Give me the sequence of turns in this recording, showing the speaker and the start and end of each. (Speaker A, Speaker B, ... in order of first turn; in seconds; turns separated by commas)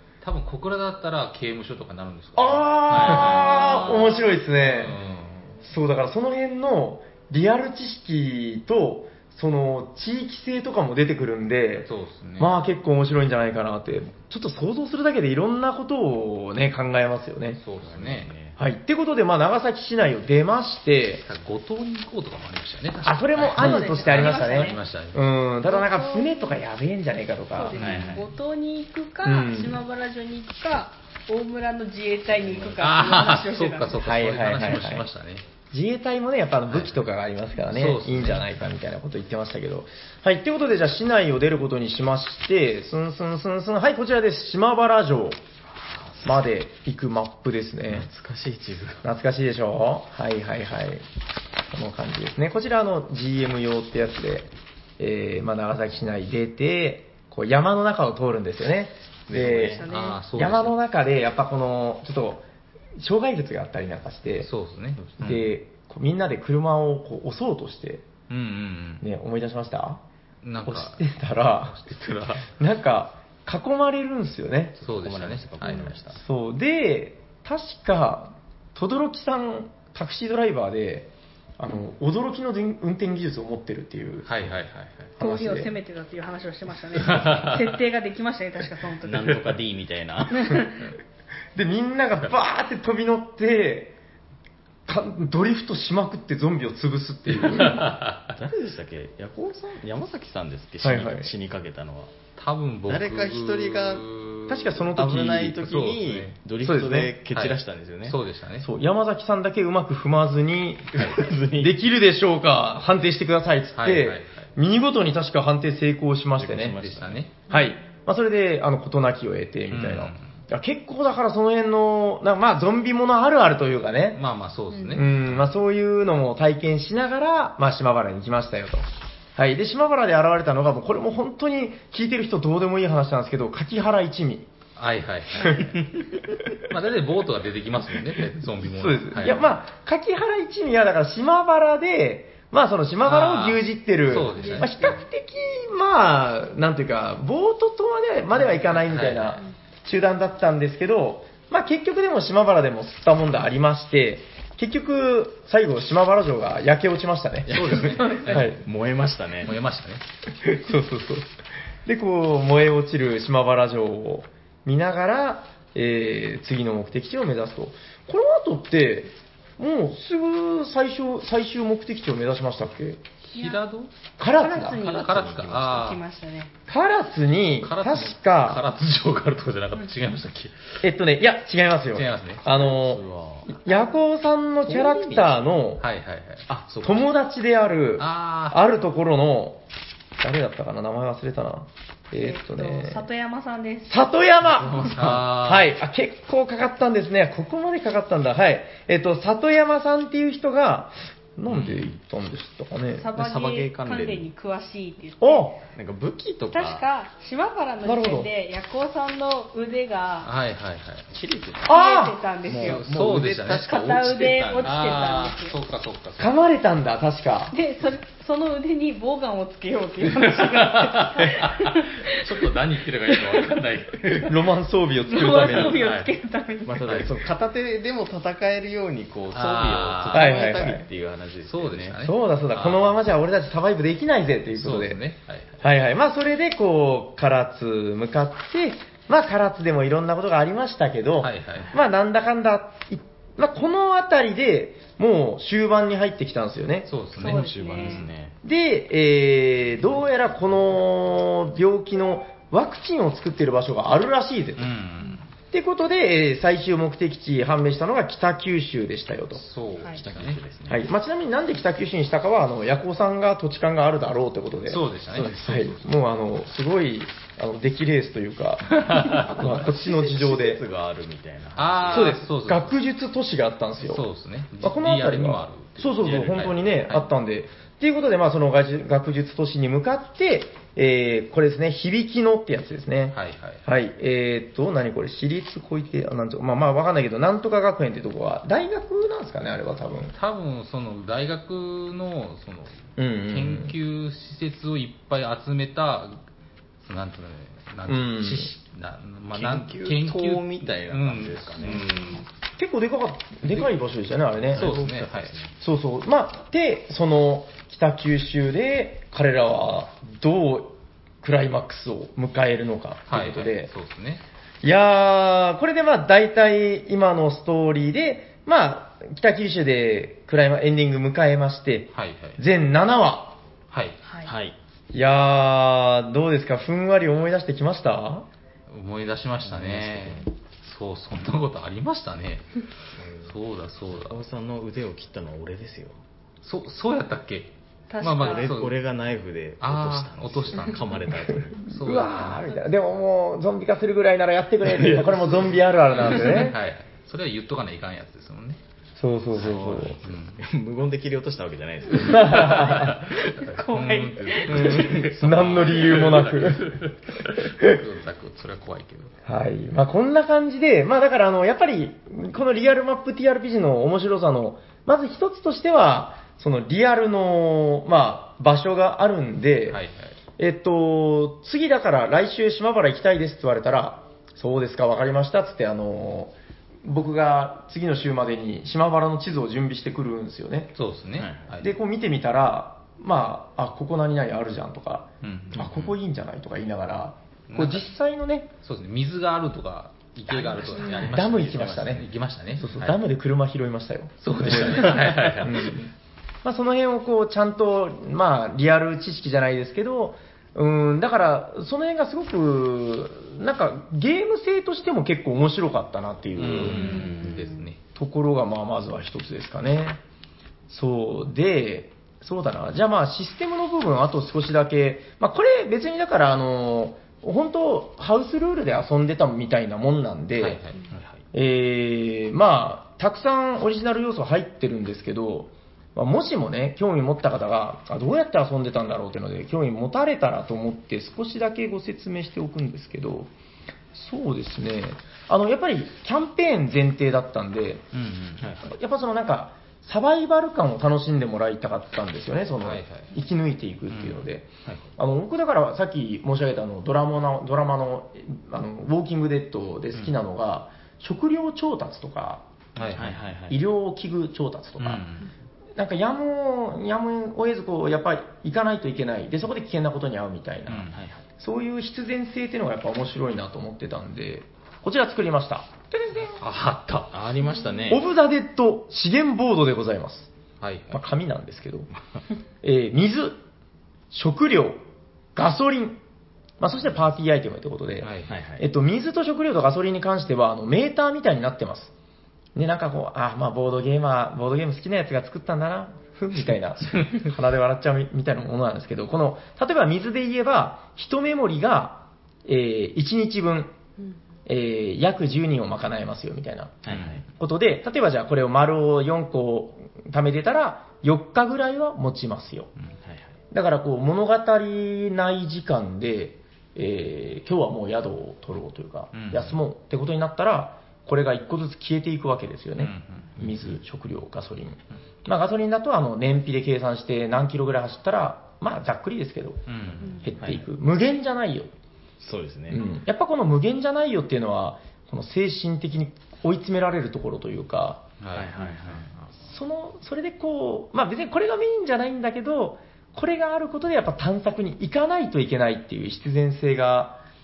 Speaker A: 0.2-5.6, Speaker B: 2.4-5.0, Speaker C: 2.9-3.8, Speaker D: 3.3-4.2, Speaker B: 5.6-17.6, Speaker A: 11.8-12.5, Speaker A: 17.6-18.4, Speaker C: 17.8-18.6, Speaker B: 18.6-21.2, Speaker A: 21.3-25.2, Speaker B: 23.0-27.8, Speaker D: 23.5-24.8, Speaker D: 25.6-26.6, Speaker D: 27.5-34.0, Speaker C: 27.7-28.3, Speaker A: 27.8-28.2, Speaker B: 29.2-29.8, Speaker C: 32.4-32.8, Speaker A: 32.8-35.5, Speaker B: 34.0-35.1, Speaker B: 35.7-45.4, Speaker A: 36.7-37.0, Speaker A: 37.7-38.5, Speaker C: 45.7-46.4, Speaker B: 46.2-48.1, Speaker C: 47.9-49.0, Speaker B: 49.0-51.0, Speaker B: 51.7-62.4, Speaker C: 59.3-59.9, Speaker D: 59.7-60.2, Speaker A: 59.9-60.8, Speaker B: 63.0-64.5, Speaker A: 64.4-65.5, Speaker C: 65.0-65.3, Speaker B: 65.2-68.1, Speaker A: 68.3-69.0, Speaker B: 69.0-70.0, Speaker A: 70.4-71.0, Speaker B: 70.6-74.8, Speaker A: 71.6-72.5, Speaker C: 74.8-76.2, Speaker A: 74.8-76.0, Speaker B: 76.1-84.3, Speaker A: 84.3-85.1, Speaker B: 85.2-85.7, Speaker D: 85.2-89.5, Speaker A: 87.0-87.7, Speaker C: 89.0-90.6, Speaker D: 90.3-90.8, Speaker B: 91.5-94.0, Speaker B: 94.9-97.9, Speaker A: 97.4-98.4, Speaker C: 98.4-102.1, Speaker B: 100.8-101.3, Speaker A: 102.4-104.8, Speaker C: 102.9-104.0, Speaker B: 104.5-105.7, Speaker C: 105.0-108.2, Speaker A: 105.6-106.4, Speaker B: 106.6-107.1, Speaker A: 107.3-108.7, Speaker B: 108.6-116.8, Speaker C: 110.9-111.8, Speaker A: 113.8-114.5, Speaker C: 116.4-117.3, Speaker A: 116.7-117.4, Speaker B: 117.5-124.2, Speaker D: 117.5-117.8, Speaker A: 119.7-120.3, Speaker A: 124.1-125.5, Speaker D: 124.7-125.0, Speaker B: 124.9-134.5, Speaker A: 134.8-135.8, Speaker B: 135.4-135.7, Speaker A: 136.5-139.5, Speaker B: 138.6-158.6, Speaker A: 143.0-144.8, Speaker D: 144.3-145.0, Speaker A: 148.9-149.4, Speaker C: 157.5-159.6, Speaker A: 157.5-158.6, Speaker A: 159.4-160.0, Speaker B: 160.4-161.3, Speaker B: 161.8-173.0, Speaker A: 173.3-173.9, Speaker D: 173.3-173.6, Speaker B: 174.2-174.8, Speaker D: 174.3-176.5, Speaker C: 174.7-175.8, Speaker A: 174.8-176.0, Speaker B: 176.7-178.6, Speaker A: 177.6-180.8, Speaker B: 180.8-185.8, Speaker A: 181.9-182.4, Speaker C: 182.5-183.6, Speaker C: 184.6-185.4, Speaker A: 185.8-186.5, Speaker C: 186.5-187.1, Speaker B: 186.8-189.6, Speaker A: 188.0-188.6, Speaker B: 190.2-193.1, Speaker D: 192.2-194.1, Speaker B: 193.9-203.1, Speaker C: 194.4-195.3, Speaker A: 194.9-195.7, Speaker A: 201.5-201.9, Speaker D: 202.9-205.6, Speaker C: 203.1-204.3, Speaker B: 205.2-205.6, Speaker C: 205.7-206.8, Speaker D: 206.5-210.3, Speaker B: 207.8-208.3, Speaker A: 210.2-211.1, Speaker C: 211.1-211.8, Speaker B: 211.6-212.2, Speaker D: 211.7-212.8, Speaker C: 212.4-215.0, Speaker A: 212.5-214.0, Speaker D: 213.6-215.6, Speaker A: 214.6-216.4, Speaker B: 216.2-217.6, Speaker D: 217.5-222.2, Speaker A: 220.1-221.8, Speaker C: 222.1-224.2, Speaker A: 222.4-224.3, Speaker D: 223.1-223.5, Speaker B: 224.2-225.9, Speaker D: 225.1-227.0, Speaker A: 225.6-226.1, Speaker C: 226.6-232.0, Speaker A: 226.8-227.2, Speaker A: 229.3-230.4, Speaker B: 230.1-230.9, Speaker A: 231.4-232.9, Speaker B: 232.0-235.0, Speaker A: 234.5-235.6, Speaker B: 235.6-246.9, Speaker A: 241.2-241.7, Speaker A: 246.9-247.5, Speaker C: 247.2-248.4, Speaker D: 247.2-248.1, Speaker B: 248.4-254.7, Speaker A: 254.6-255.3, Speaker B: 255.5-259.4, Speaker A: 259.4-260.4, Speaker C: 259.9-260.8, Speaker B: 260.7-270.6, Speaker A: 264.7-265.8, Speaker C: 265.1-265.5, Speaker A: 268.8-269.4, Speaker C: 269.3-272.2, Speaker A: 271.6-272.7, Speaker B: 271.9-274.0, Speaker A: 273.8-277.0, Speaker B: 274.6-290.1, Speaker C: 276.0-276.5, Speaker A: 283.1-283.6, Speaker A: 290.1-296.2, Speaker B: 293.0-293.8, Speaker A: 296.8-302.1, Speaker B: 297.9-298.5, Speaker C: 299.3-302.2, Speaker B: 302.6-304.7, Speaker C: 304.5-305.6, Speaker A: 304.5-305.3, Speaker B: 305.6-313.7, Speaker A: 313.1-314.2, Speaker B: 314.6-323.4, Speaker A: 321.9-322.4, Speaker A: 323.7-324.0, Speaker D: 324.0-324.3, Speaker C: 324.2-324.6, Speaker B: 324.9-328.2, Speaker A: 328.7-332.6, Speaker C: 329.4-330.3, Speaker C: 332.9-333.4, Speaker A: 333.2-334.2, Speaker C: 333.9-336.0, Speaker A: 336.4-338.8, Speaker D: 337.9-338.5, Speaker C: 338.0-341.7, Speaker A: 339.6-341.0, Speaker B: 341.6-346.6, Speaker A: 341.6-342.4, Speaker C: 344.6-346.5, Speaker A: 346.0-348.6, Speaker B: 349.0-350.0, Speaker C: 349.4-353.1, Speaker A: 349.4-350.4, Speaker B: 351.9-353.0, Speaker A: 352.4-359.1, Speaker D: 353.3-355.1, Speaker C: 354.5-356.0, Speaker B: 354.6-356.8, Speaker B: 357.3-357.8, Speaker B: 359.2-369.8, Speaker A: 369.7-370.1, Speaker B: 370.4-376.3, Speaker B: 376.8-380.7, Speaker A: 380.8-381.7, Speaker C: 381.2-381.5, Speaker B: 381.6-388.5, Speaker A: 385.2-385.9, Speaker A: 387.5-387.9, Speaker A: 388.6-393.0, Speaker C: 390.3-391.9, Speaker D: 390.8-391.1, Speaker B: 391.0-395.8, Speaker A: 394.2-395.9, Speaker C: 394.4-395.3, Speaker B: 396.4-407.2, Speaker A: 406.3-407.8, Speaker C: 406.7-407.2, Speaker D: 406.7-407.7, Speaker B: 407.9-410.0, Speaker B: 410.7-420.6, Speaker A: 420.4-420.9, Speaker C: 420.9-421.2, Speaker B: 421.3-433.3, Speaker B: 433.9-437.9, Speaker A: 437.9-438.6, Speaker B: 438.6-455.0, Speaker A: 442.6-443.1, Speaker A: 443.9-444.9, Speaker A: 452.7-453.2, Speaker C: 452.9-453.6, Speaker A: 454.8-455.3, Speaker B: 455.7-466.3, Speaker A: 460.7-460.9, Speaker C: 460.9-461.2, Speaker A: 466.3-467.1, Speaker C: 467.1-468.0, Speaker B: 467.9-470.3, Speaker A: 470.6-470.9, Speaker B: 470.9-471.9, Speaker B: 472.6-473.4, Speaker B: 474.1-474.8, Speaker B: 475.4-476.0, Speaker B: 476.6-481.9, Speaker A: 478.0-478.4, Speaker C: 478.3-478.6, Speaker B: 482.6-493.7, Speaker B: 494.4-496.8, Speaker C: 496.8-497.2, Speaker A: 496.9-497.2, Speaker B: 497.4-502.7, Speaker C: 503.0-503.3, Speaker B: 503.5-521.7, Speaker A: 509.1-509.6, Speaker A: 512.8-513.4, Speaker A: 519.7-520.2, Speaker C: 520.4-520.7, Speaker C: 522.2-522.8, Speaker B: 522.7-528.0, Speaker A: 528.2-529.1, Speaker C: 528.3-529.1, Speaker B: 529.4-537.2